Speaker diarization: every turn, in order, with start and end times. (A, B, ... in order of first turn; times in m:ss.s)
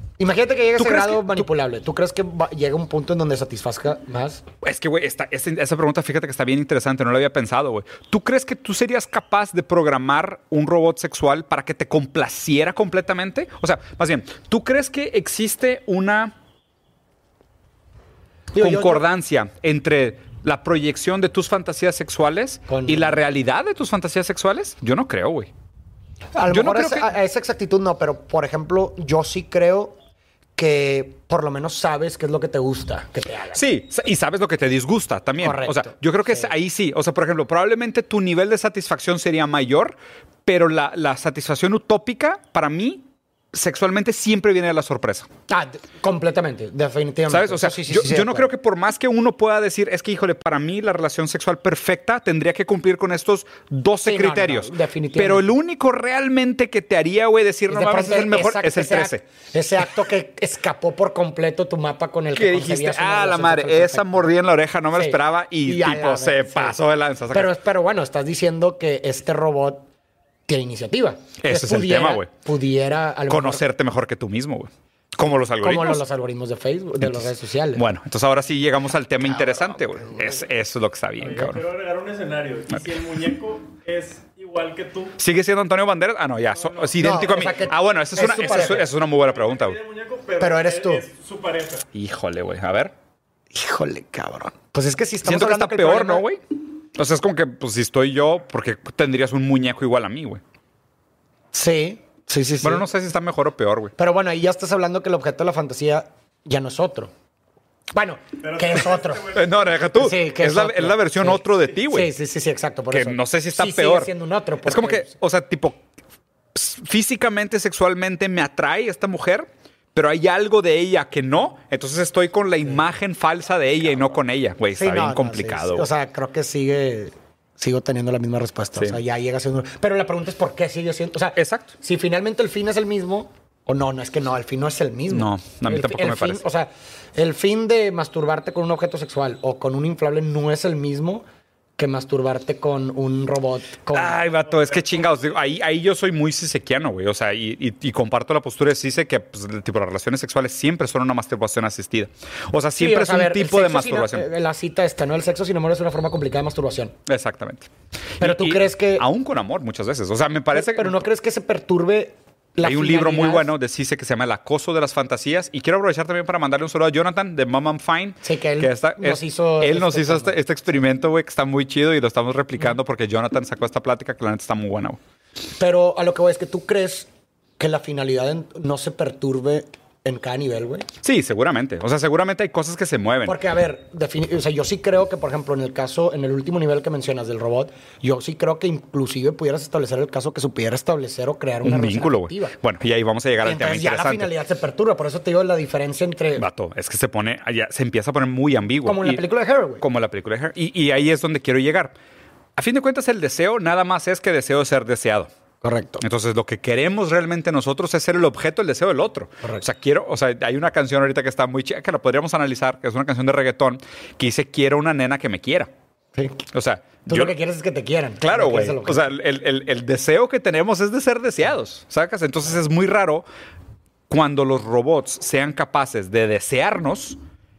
0:00.2-0:04.4 A
0:00.8-0:01.5 B
0:04.6-0:16.3 B
0:18.5-0:19.0 A
0:18.6-0:25.5 B
0:22.7-0:23.2 A
0:26.4-0:30.0 A
0:26.5-0:27.1 B
0:30.6-0:33.6 A
0:33.5-0:45.3 B
0:35.4-0:36.5 A
0:45.5-0:48.5 A
0:47.3-0:59.2 B
0:54.0-0:55.5 A
0:57.7-1:04.3 A
1:02.3-1:07.5 B
1:04.9-1:06.8 A
1:07.3-1:09.9 A
1:10.5-1:13.6 A
1:11.4-1:12.3 B
1:13.3-1:16.0 B
1:15.6-1:17.8 A
1:17.0-1:21.6 B
1:21.4-1:25.2 C
1:25.2-1:29.8 B
1:27.0-1:28.9 A
1:29.6-1:31.8 C
1:30.4-1:31.1 A
1:31.9-1:32.9 B
1:33.5-1:36.2 A
1:35.2-1:36.4 B
1:37.0-1:40.4 B
1:41.5-1:42.8 A
1:42.6-1:43.9 B
1:44.0-1:47.1 A
1:47.9-1:49.4 A
1:49.3-1:52.1 B
1:50.0-1:55.1 A
1:52.9-1:54.1 B
1:54.6-1:55.8 B
1:56.5-2:05.9 B
2:04.7-2:21.2 A
2:11.4-2:11.7 B
2:15.1-2:16.4 B
2:21.8-2:24.2 A
2:23.9-2:34.3 B
2:32.8-2:37.0 A
2:37.1-2:37.7 B
2:38.2-2:40.9 B
2:38.2-2:39.1 A
2:40.5-2:43.5 A
2:42.6-2:55.0 B
2:48.2-2:50.4 A
2:55.6-3:00.9 A
3:01.0-3:03.4 B
3:03.2-3:12.6 A
3:11.6-3:14.3 B
3:13.4-3:16.5 A
3:16.4-3:19.2 B
3:18.8-3:19.8 A
3:19.8-3:21.9 B
3:22.6-3:25.3 B
3:25.6-3:26.0 A
3:26.0-3:35.7 B
3:36.2-3:36.4 A
3:36.5-3:37.3 B
3:37.1-3:39.2 A
3:38.2-3:43.3 B
3:44.1-3:47.2 B